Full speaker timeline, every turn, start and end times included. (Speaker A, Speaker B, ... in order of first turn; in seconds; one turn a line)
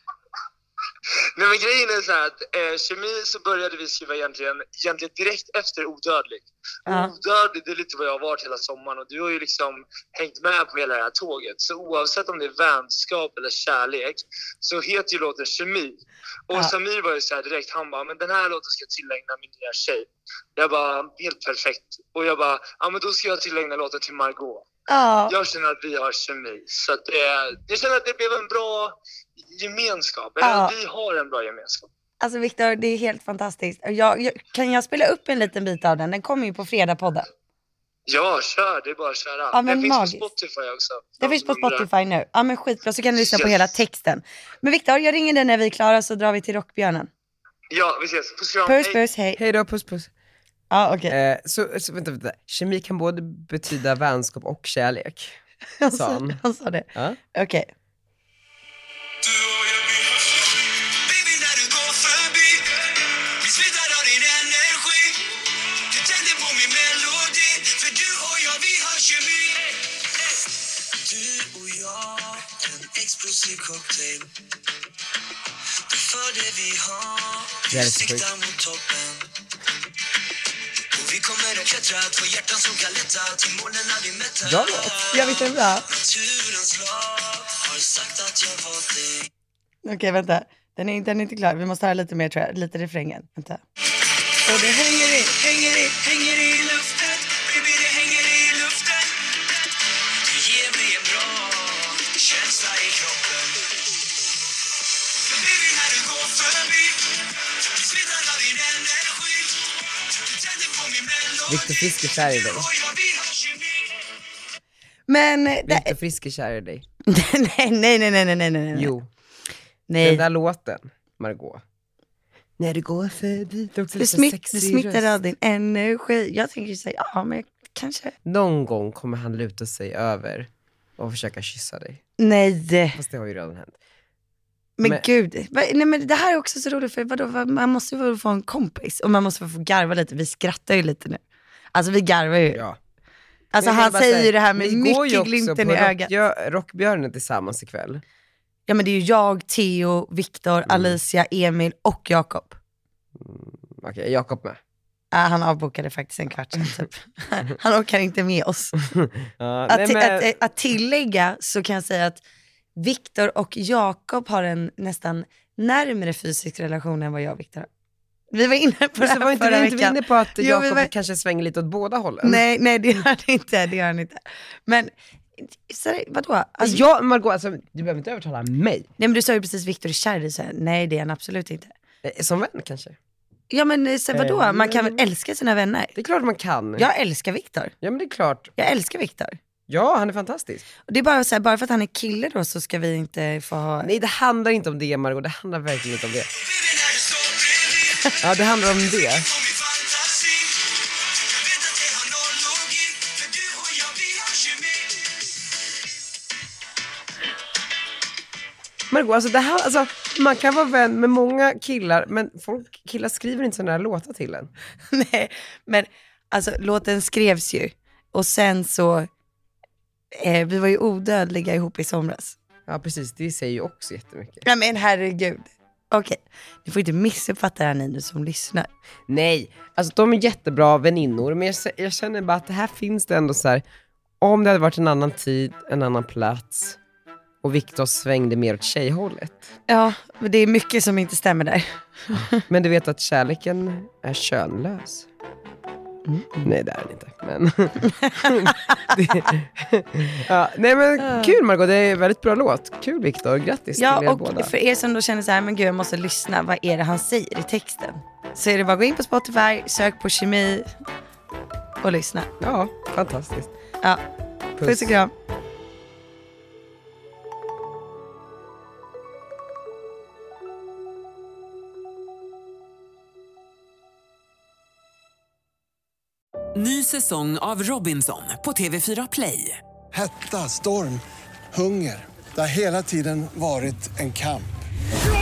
Speaker A: 1.4-24.7
Speaker B: 6.9-7.1
Speaker B: 24.9-25.4
Speaker A: 25.3-31.9
Speaker B: 30.4-30.7
Speaker B: 32.2-37.3
Speaker A: 38.1-41.9
Speaker B: 39.5-40.2
Speaker B: 41.2-47.1
Speaker A: 43.2-43.7
Speaker A: 47.7-49.0
Speaker B: 48.6-49.4
Speaker C: 49.4-50.1
Speaker B: 50.7-51.1
Speaker C: 51.1-55.4
Speaker B: 55.8-57.7
Speaker C: 55.9-56.4
Speaker C: 56.9-57.2
Speaker D: 59.2-65.3
Speaker D: 65.9-74.3
Speaker D: 75.9-79.3
Speaker C: 77.7-78.3
Speaker D: 80.9-89.3
Speaker C: 84.4-84.9
Speaker B: 85.1-85.8
Speaker B: 89.8-93.6
Speaker B: 94.5-95.9
Speaker D: 94.5-99.6
Speaker D: 100.2-103.7
Speaker D: 105.2-114.0
Speaker C: 111.5-112.6
Speaker B: 115.1-115.9
Speaker C: 115.7-116.8
Speaker B: 117.1-118.9
Speaker C: 118.7-119.1
Speaker B: 119.9-120.2
Speaker C: 120.0-121.6
Speaker C: 122.6-125.2
Speaker B: 124.0-128.1
Speaker C: 128.2-132.0
Speaker B: 132.2-133.0
Speaker C: 132.9-133.8
Speaker B: 134.8-141.2
Speaker B: 141.7-142.6
Speaker C: 142.5-142.8
Speaker B: 143.5-146.1
Speaker C: 143.6-148.0
Speaker B: 148.7-152.6
Speaker C: 150.7-150.9
Speaker C: 153.2-154.6
Speaker B: 155.1-158.8
Speaker C: 158.9-160.3
Speaker B: 159.7-162.2
Speaker B: 162.8-167.7
Speaker B: 168.3-170.9
Speaker C: 169.0-172.4
Speaker B: 172.2-176.8
Speaker C: 176.6-178.9
Speaker B: 179.0-181.7
Speaker C: 182.0-183.0
Speaker B: 183.5-185.9
Speaker C: 184.1-185.0
Speaker C: 185.9-186.9
Speaker B: 186.8-187.7
Speaker C: 187.8-188.5
Speaker B: 188.6-189.3
Speaker C: 189.7-190.6
Speaker B: 190.9-193.9
Speaker C: 193.8-196.3
Speaker D: 196.3-205.0
Speaker C: 198.2-199.2
Speaker C: 208.9-214.5
Speaker B: 214.9-219.1
Speaker B: 220.1-222.3
Speaker C: 222.7-224.4
Speaker B: 224.4-228.7
Speaker C: 229.1-233.6
Speaker C: 234.2-236.8
Speaker C: 237.4-239.5
Speaker B: 239.7-242.4
Speaker C: 242.4-245.1
Speaker B: 246.1-246.5
Speaker C: 246.4-254.5
Speaker B: 248.0-248.9
Speaker B: 251.0-251.3
Speaker B: 253.8-260.7
Speaker B: 261.8-262.3
Speaker C: 262.4-263.5
Speaker C: 264.6-265.0
Speaker B: 264.6-265.1
Speaker E: 276.5-279.6
Speaker F: 279.9-281.0
Speaker F: 281.5-284.5